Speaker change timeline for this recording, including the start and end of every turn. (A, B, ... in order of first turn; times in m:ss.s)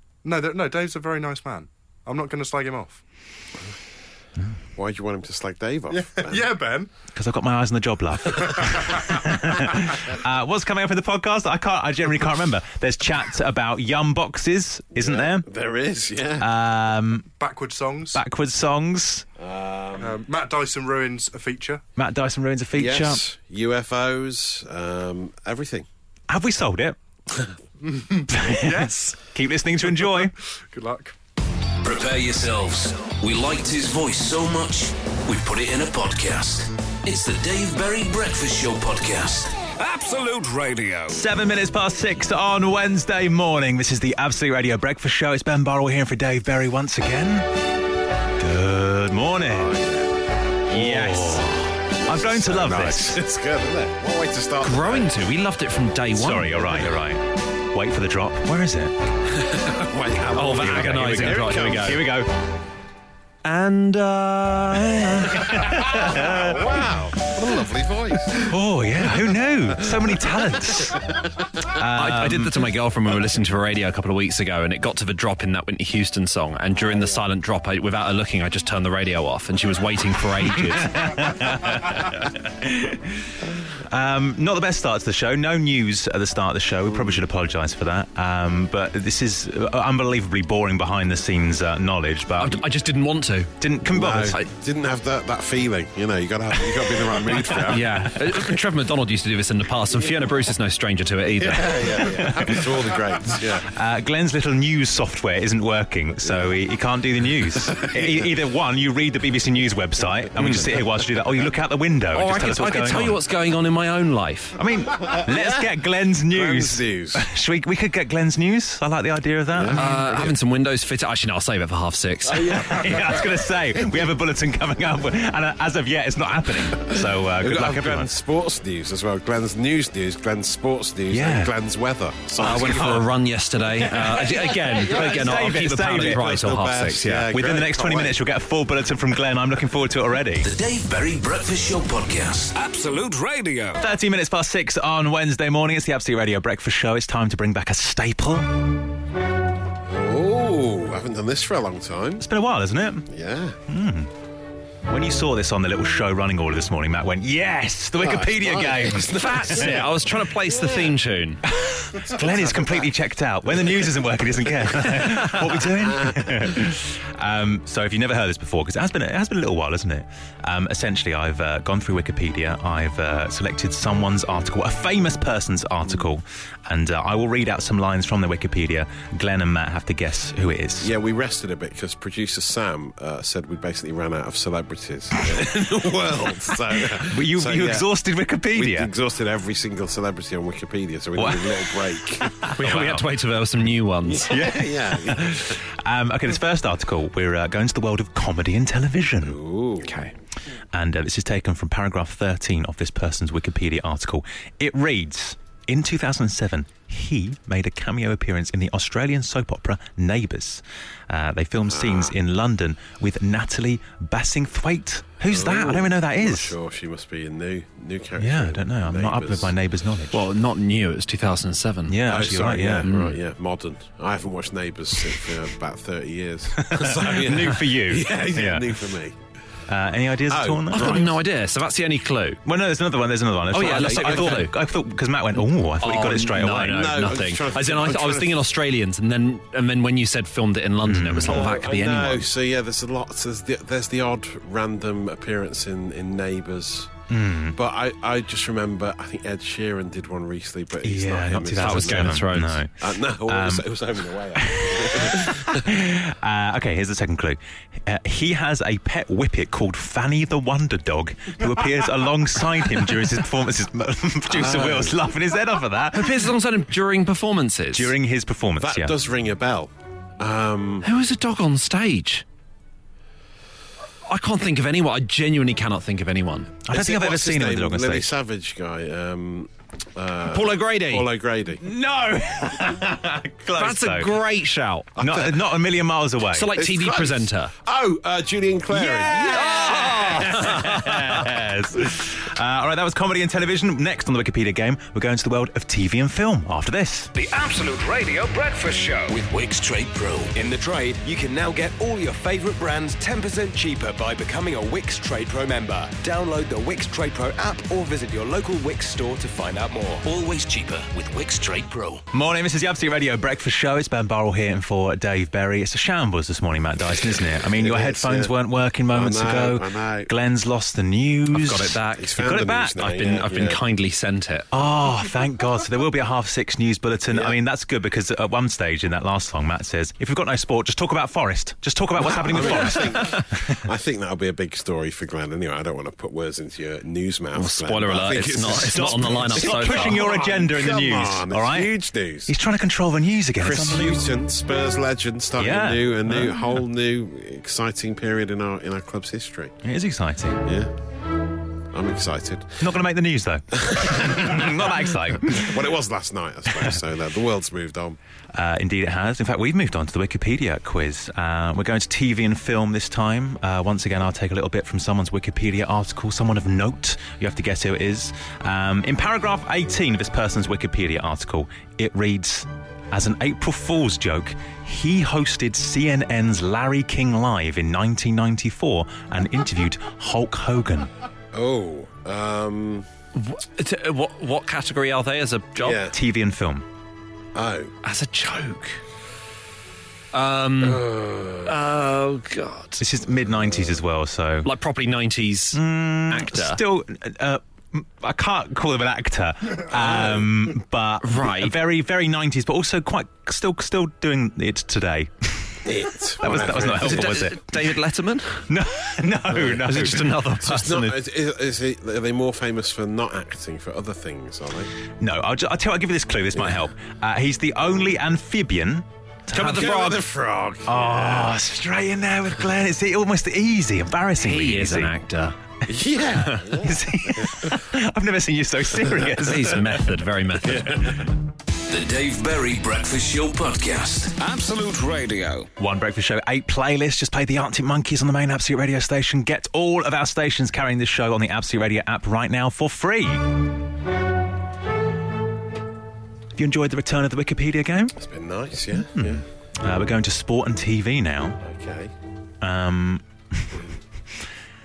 0:00.2-0:03.0 A
0:04.8-0:06.6 B
0:06.0-0:06.9 A
0:07.1-0:15.5 C
0:08.3-0:09.0 A
0:14.9-0:16.5 B
0:16.4-0:17.3 C
0:17.4-0:18.2 A
0:18.1-0:19.3 C
0:19.4-0:20.2 B
0:20.0-0:21.8 A
0:22.0-0:23.2 C
0:22.7-0:25.9 B
0:26.3-0:27.0 C
0:27.9-0:29.2 A
0:28.3-0:30.3 C
0:29.8-0:31.1 A
0:31.8-0:39.6 D
0:39.8-0:41.2 E
0:41.1-0:47.5 C
0:48.4-0:49.8 C
0:49.4-0:55.2 B
0:50.7-0:53.2 C
0:54.6-0:56.7 F
0:56.1-0:59.0 C
0:59.4-1:02.1 B
1:00.3-1:02.0 F
1:00.5-1:02.3 C
1:03.4-1:05.6 F
1:05.3-1:06.6 C
1:05.9-1:08.5 B
1:08.5-1:11.0 C
1:11.7-1:12.6 C
1:12.0-1:21.0 F
1:20.8-1:32.6 C
1:26.9-1:27.3 B
1:32.4-1:33.5 F
1:33.6-1:34.3 C
1:33.9-1:38.1 B
1:34.1-1:34.5 F
1:37.7-1:42.1 F
1:41.4-1:43.7 B
1:42.1-1:42.7 C
1:43.6-1:53.2 C
1:46.2-1:46.6 B
1:47.5-1:48.3 B
1:50.4-1:50.8 B
1:52.1-1:54.6 F
1:54.6-1:59.8 C
1:55.0-1:55.7 B
1:56.3-1:57.3 B
1:59.5-2:00.4 B
1:59.7-2:02.6 F
2:02.3-2:03.3 B
2:02.4-2:08.1 C
2:06.9-2:13.1 B
2:11.1-2:11.5 C
2:12.4-2:17.3 F
2:12.5-2:13.0 C
2:13.9-2:18.2 B
2:14.8-2:16.5 C
2:17.3-2:20.5 C
2:20.4-2:22.6 D
2:22.6-2:23.8 E
2:23.8-2:28.6 C
2:29.9-2:32.3 B
2:32.2-2:33.1 C
2:33.1-2:33.6 B
2:33.7-2:34.1 C
2:34.9-2:39.9 C
2:38.0-2:41.0 B
2:39.1-2:41.4 F
2:41.5-3:00.9 C
2:42.3-2:42.9 B
2:45.5-2:46.5 B
3:00.8-3:07.9 B
3:06.8-3:08.9 C
3:08.5-3:12.4 B
3:11.2-3:13.1 C
3:12.5-3:14.4 F
3:14.0-3:15.6 B
3:14.3-3:19.4 C
3:19.2-3:20.0 B
3:19.8-3:20.1 F
3:20.7-3:36.5 C
3:31.7-3:32.2 B
3:35.3-3:39.5 B
3:38.2-3:40.2 C
3:40.1-3:42.0 F
3:41.9-3:42.9 C
3:42.0-3:49.2 B
3:42.8-3:43.2 F
3:46.6-3:48.7 C
3:49.7-3:51.1 C
3:50.3-3:51.2 B
3:50.7-3:52.4 F
3:52.4-3:57.0 C
3:53.5-3:54.6 F
3:53.6-3:54.5 B
3:55.8-4:02.3 F
3:56.6-3:58.5 B
4:00.9-4:01.4 C
4:01.2-4:06.9 B
4:07.1-4:07.6 C
4:07.5-4:15.7 B
4:10.8-4:12.7 C
4:11.6-4:12.6 F
4:13.2-4:13.7 C
4:14.4-4:26.2 C
4:24.3-4:25.0 B
4:25.9-4:27.9 F
4:27.7-4:28.9 C
4:28.6-4:30.9 B
4:30.8-4:32.2 F
4:34.1-4:36.5 F
4:36.7-4:38.1 C
4:36.7-4:41.6 B
4:40.3-4:41.1 F
4:41.6-4:44.2 C
4:43.6-4:45.0 F
4:45.0-4:45.4 B
4:45.0-4:46.5 C
4:46.3-4:47.5 F
4:46.5-4:50.9 B
4:48.7-4:57.1 C
4:49.1-4:51.0 F
4:57.2-5:00.3 D
5:00.3-5:10.1 G
5:10.0-5:12.0 D
5:12.1-5:22.8 C
5:17.6-5:18.3 B
5:18.9-5:20.1 B
5:21.3-5:24.5 F
5:21.9-5:23.6 B
5:24.5-5:33.2 C
5:27.1-5:27.4 B
5:32.0-5:42.4 B
5:37.4-5:40.1 F
5:38.5-5:41.7 C
5:42.3-5:44.0 C
5:43.4-5:49.6 B
5:45.4-5:46.6 C
5:49.6-5:50.4 C
5:50.4-5:50.7 B
5:51.7-5:52.6 B
5:52.6-5:55.6 C
5:53.5-5:58.0 B
5:58.3-6:20.9 C
6:21.3-6:22.9 B
6:23.2-6:25.9 F
6:25.6-6:26.0 B
6:25.9-6:26.6 C
6:27.4-6:27.8 B
6:27.8-6:28.8 F
6:30.1-6:30.9 F
6:30.6-6:31.6 B
6:31.4-6:32.8 F
6:32.8-6:34.5 C
6:34.4-6:36.6 F
6:35.5-6:47.5 C
6:39.7-6:40.5 B
6:41.0-6:41.6 F
6:45.6-6:47.3 B
6:46.4-6:48.5 F
6:48.5-6:50.1 C
6:49.3-6:51.0 F
6:50.4-6:54.7 B
6:55.0-6:59.9 C
6:56.3-6:56.6 B
6:59.3-7:00.0 F
6:59.4-7:01.4 B
7:00.7-7:04.9 C
7:04.2-7:05.4 F
7:05.7-7:07.6 B
7:06.2-7:06.5 F
7:06.6-7:09.8 C
7:09.2-7:11.0 F
7:10.4-7:11.0 B
7:11.7-7:14.2 D
7:14.2-7:15.5 E
7:15.6-7:23.3 C
7:26.4-7:28.0 C
7:28.0-7:29.2 B
7:28.8-7:31.4 C
7:31.4-7:31.9 B
7:32.4-7:33.6 C